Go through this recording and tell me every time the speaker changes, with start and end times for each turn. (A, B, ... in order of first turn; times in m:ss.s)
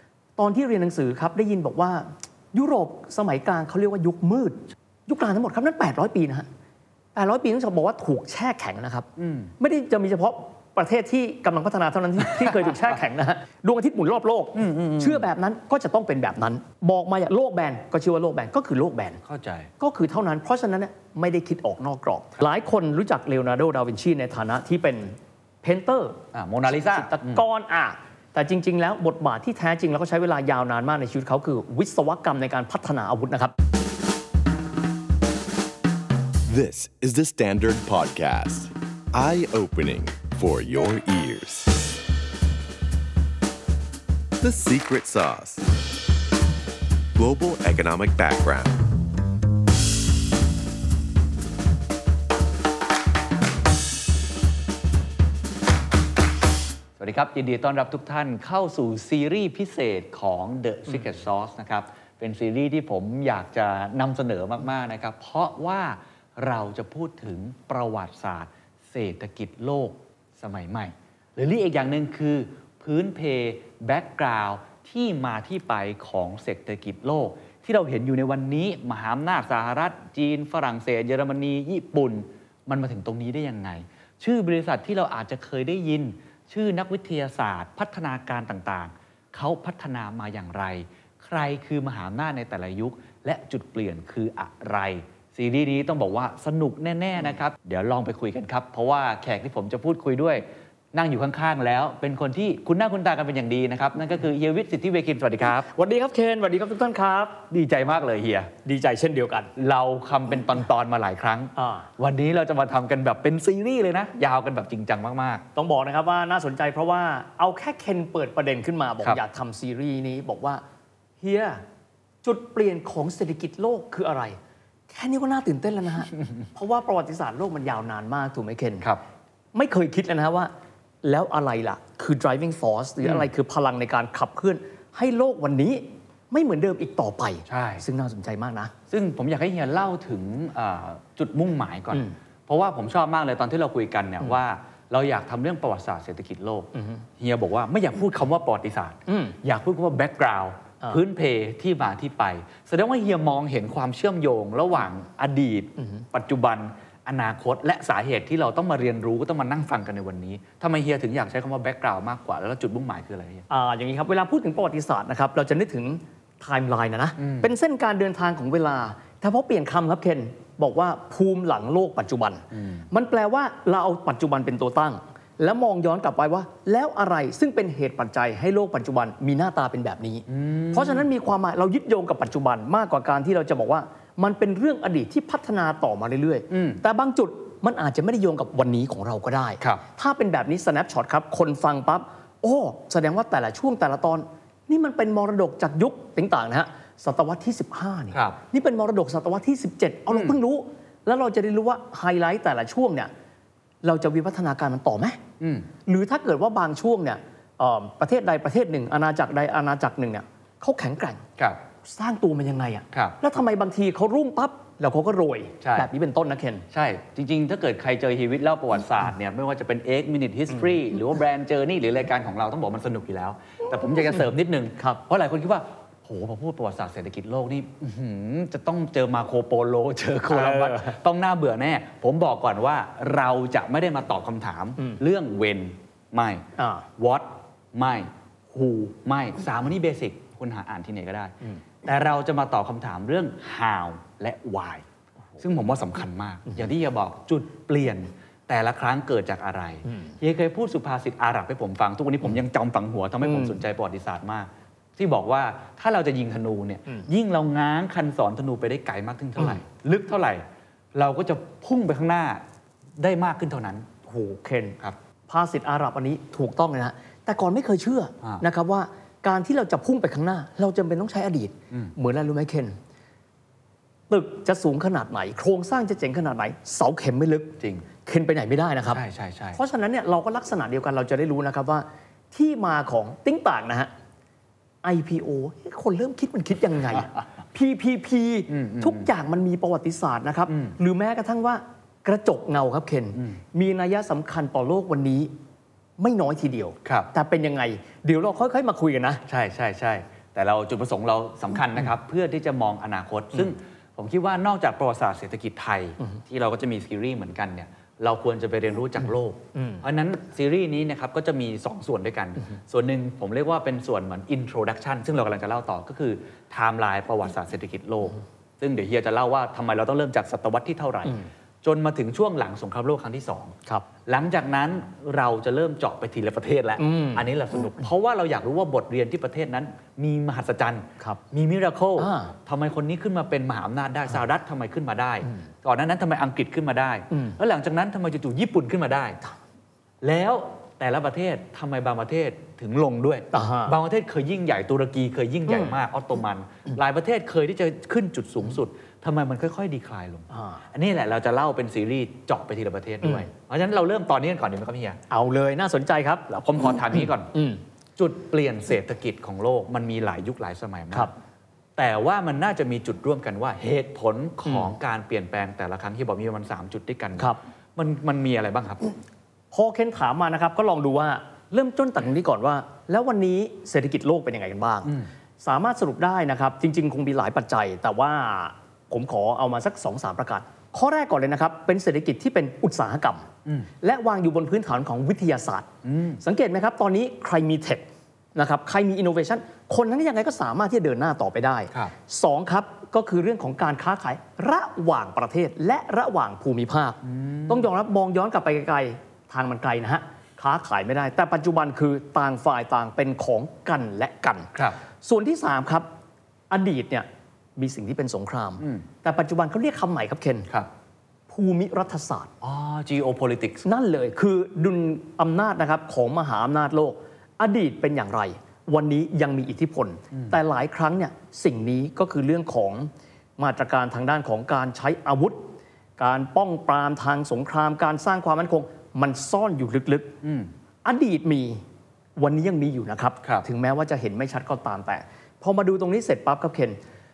0:00.4-0:06.5 A
0:07.1-0:09.1 A
0:09.2-0:09.5 B
0:09.6-0:19.2 A
0:14.6-0:15.2 B
0:19.2-0:19.7 B
0:19.8-0:33.5 A
0:26.3-0:27.4 B
0:36.4-0:42.0 C
0:44.4-0:45.7 C
0:47.1-0:48.8 C
0:57.0-1:45.7 B
1:45.7-1:47.4 A
1:47.5-1:48.5 B
1:48.6-1:49.5 A
1:49.6-1:55.4 B
1:51.6-1:51.9 A
1:55.5-2:00.6 A
2:01.2-2:01.6 A
2:02.2-2:04.4 A
2:04.9-2:08.9 A
2:09.5-2:10.5 A
2:11.0-2:18.7 A
2:17.5-2:17.8 B
2:18.9-2:43.4 B
2:26.8-2:27.0 A
2:29.1-2:29.4 A
2:43.5-3:23.1 A
2:47.2-2:47.5 B
2:52.5-2:52.8 B
3:00.3-3:01.0 B
3:06.5-3:06.8 B
3:23.8-3:25.2 A
3:25.4-3:25.7 B
3:25.8-3:31.2 A
3:31.8-3:36.6 A
3:32.9-3:33.2 B
3:35.6-3:35.9 B
3:36.7-3:56.4 B
3:50.3-3:51.0 A
3:56.6-3:56.9 A
3:57.0-4:04.8 B
4:05.4-4:22.4 B
4:13.2-4:13.6 A
4:23.0-4:23.9 B
4:24.1-4:24.8 A
4:25.3-4:32.8 A
4:34.1-4:39.0 A
4:38.9-4:39.6 B
4:39.5-4:43.9 A
4:44.8-4:55.3 A
4:48.5-4:49.0 B
4:50.5-4:50.7 B
4:56.0-4:59.2 A
4:59.3-5:23.5 B
5:09.5-5:09.8 A
5:24.0-5:39.2 B
5:26.8-5:27.2 A
5:32.0-5:32.3 A
5:40.0-5:55.0 B
5:43.3-5:43.7 A
5:45.5-5:45.7 A
5:50.3-5:50.6 A
5:55.1-5:56.3 A
5:56.3-5:57.3 B
5:57.3-5:57.6 A
5:58.0-6:01.1 B
6:01.8-6:08.9 B
6:09.5-6:23.3 A
6:23.8-6:25.7 A
6:25.8-6:26.2 B
6:26.2-6:27.8 A
6:28.4-6:45.8 A
6:37.0-6:37.6 B
6:46.5-6:47.0 A
6:47.6-6:50.5 A
6:51.3-6:52.3 A
6:52.4-6:53.6 B
6:53.6-7:05.4 A
7:06.0-7:10.1 A
7:10.2-7:10.5 B
7:10.8-7:11.6 A
7:12.2-7:16.8 A